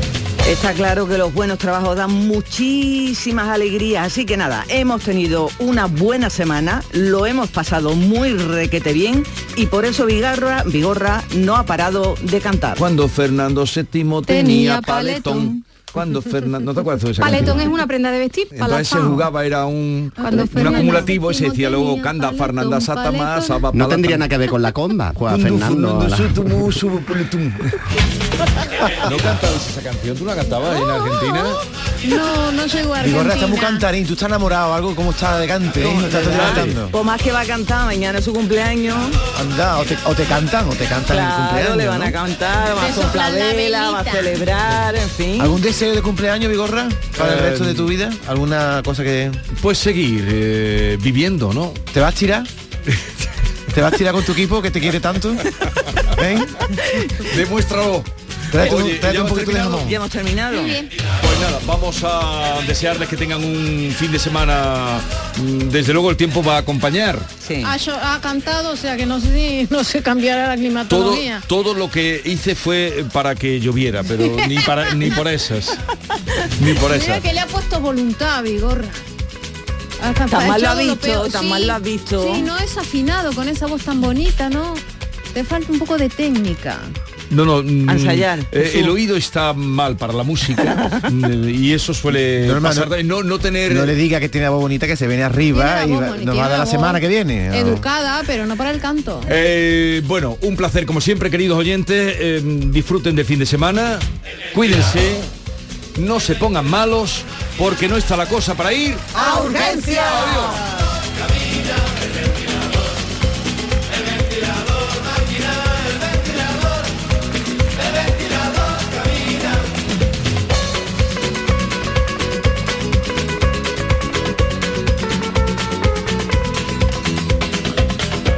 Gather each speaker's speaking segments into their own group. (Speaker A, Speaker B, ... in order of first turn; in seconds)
Speaker A: 0.4-12.8, 35.8-39.2, 41.1-45.6, 59.5-60.8, 67.4-67.7, 80.3-82.4, 87.9-88.9, 109.1-110.5
Speaker B: 12.8-17.8, 18.5-24.3, 25.2-27.7, 29.0-31.6, 36.2-36.8, 47.1-47.9, 49.6-51.8, 57.2-59.9, 61.2-67.3, 70.9-75.8, 76.6-77.2, 87.3-94.0, 99.2-105.3, 105.9-110.6
Speaker C: 14.3-15.6, 17.2-19.3, 20.2-23.6, 32.0-33.9, 42.7-44.4, 60.5-60.9, 67.6-71.4, 76.8-79.0, 80.0-84.8, 85.3-86.9, 95.5-99.3
Speaker D: 23.7-26.6
Speaker E: 33.0-36.9, 39.3-42.1, 45.4-49.4, 51.9-52.5, 53.7-55.5, 56.1-56.5, 58.5-60.0, 92.4-92.9, 93.7-97.8